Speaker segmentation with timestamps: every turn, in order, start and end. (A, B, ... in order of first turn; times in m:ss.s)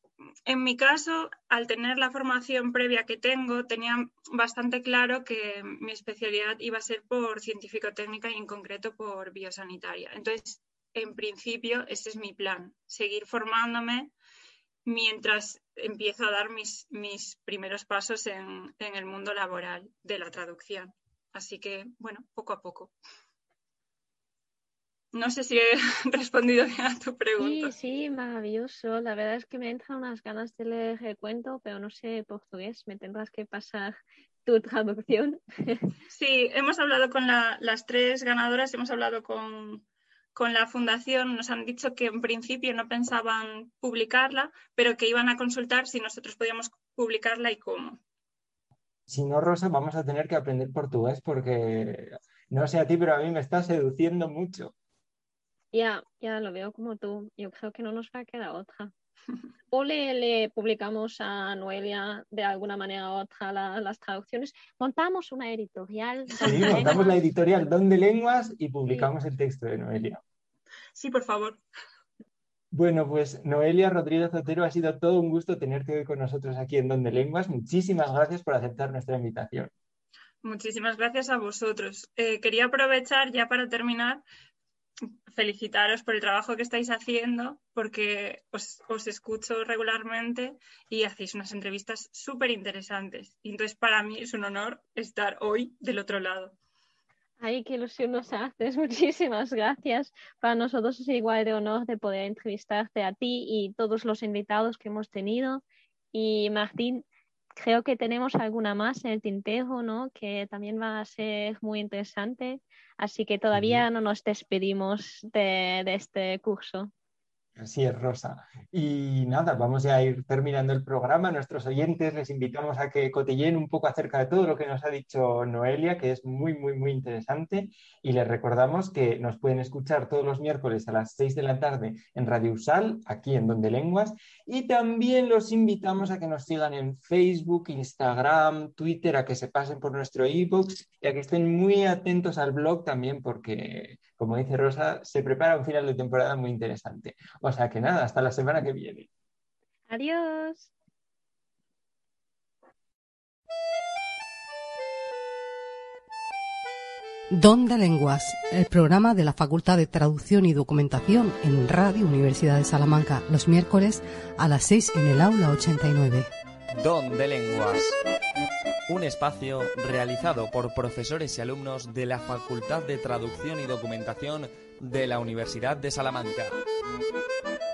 0:00.4-0:14.1 A
0:14.8-0:22.9 A
0:25.1-0:27.7 A
0:27.4-0:35.9 B
0:36.1-0:48.0 A
0:49.1-0:54.7 C
0:55.7-0:58.9 B
0:59.7-1:07.1 B
1:06.4-1:10.2 C
1:06.5-1:06.8 A
1:10.9-1:11.6 A
1:12.7-1:19.7 C
1:20.4-1:24.2 A
1:25.3-1:36.6 A
1:37.4-1:47.0 B
1:47.6-1:56.9 B
1:53.5-1:53.8 C
1:57.6-2:29.1 C
2:29.9-2:30.7 B
2:37.3-2:46.3 D
2:46.8-2:48.0 E
2:48.9-2:56.6 E